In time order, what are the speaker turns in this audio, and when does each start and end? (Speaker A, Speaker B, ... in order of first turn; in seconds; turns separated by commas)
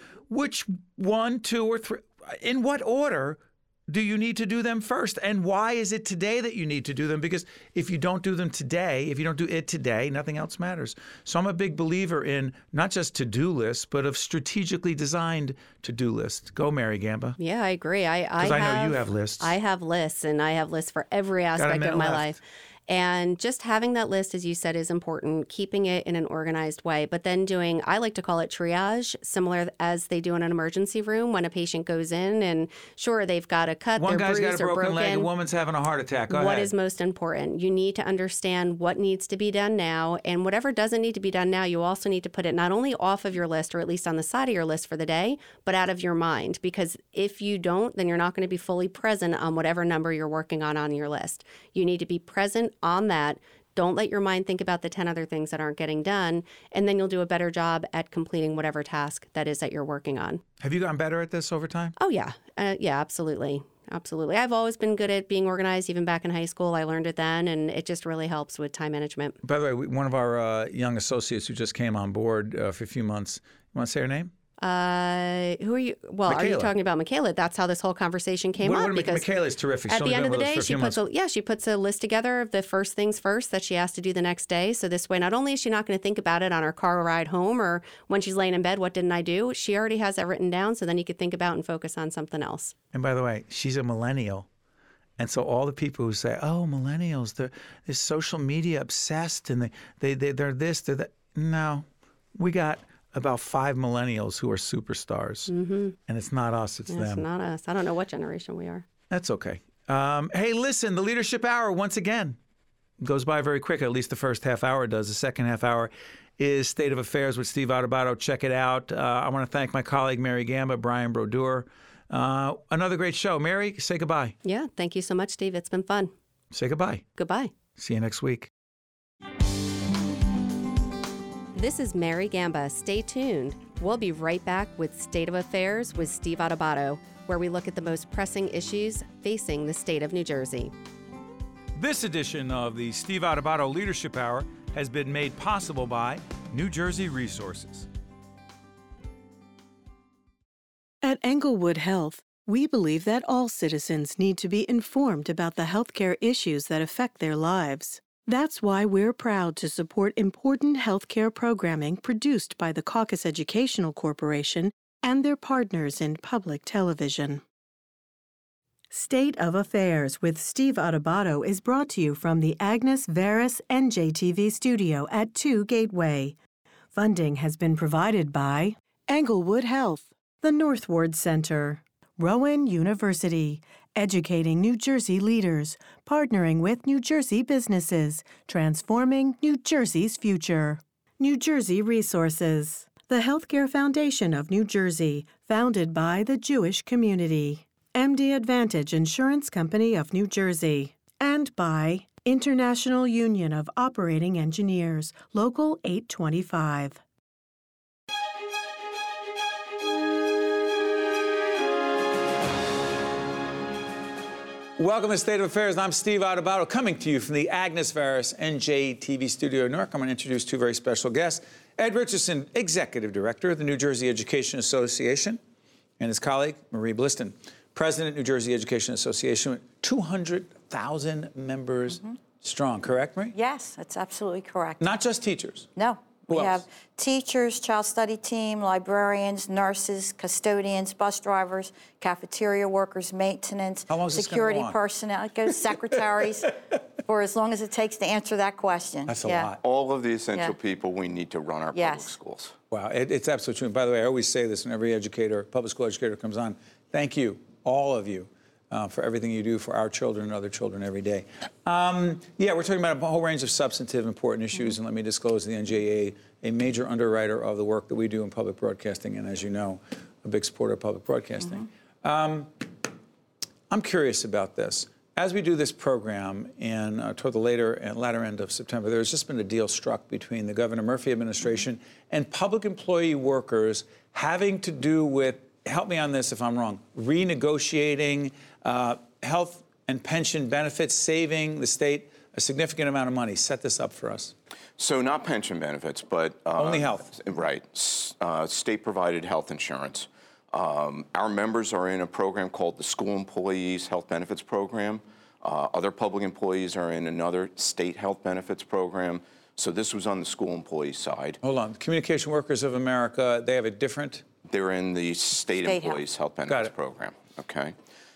Speaker A: 0.3-17.4, Speaker B: 17.4-35.3, Speaker A: 18.4-19.5, Speaker A: 21.6-22.4, Speaker A: 34.0-36.7, Speaker B: 36.3-60.4, Speaker A: 60.6-62.0, Speaker B: 62.0-69.4, Speaker A: 69.4-74.3, Speaker B: 74.6-79.3, Speaker A: 76.3-76.7, Speaker A: 78.6-81.0, Speaker B: 79.9-92.8, Speaker A: 92.9-94.5, Speaker A: 95.2-105.5, Speaker B: 105.5-106.0, Speaker A: 106.1-107.2, Speaker B: 106.9-108.8, Speaker A: 109.1-112.4, Speaker A: 113.0-124.3, Speaker B: 124.4-126.1, Speaker A: 126.5-127.0, Speaker B: 127.2-127.5, Speaker A: 127.8-128.5, Speaker B: 131.6-140.7, Speaker A: 141.8-147.9, Speaker C: 151.0-167.4, Speaker C: 168.9-176.4, Speaker C: 176.9-207.0, Speaker A: 214.8-225.4, Speaker A: 226.0-233.3, Speaker D: 233.3-234.8, Speaker A: 234.8-235.7, Speaker D: 235.8-249.5, Speaker A: 236.3-236.6, Speaker A: 243.9-244.8, Speaker A: 249.1-249.6, Speaker E: 249.6-252.6, Speaker D: 251.7-252.1, Speaker A: 252.7-272.7, Speaker A: 273.7-294.3, Speaker E: 294.8-311.4, Speaker A: 296.6-297.1, Speaker A: 311.4-314.2, Speaker E: 314.5-317.8, Speaker D: 315.6-316.0, Speaker A: 316.5-316.7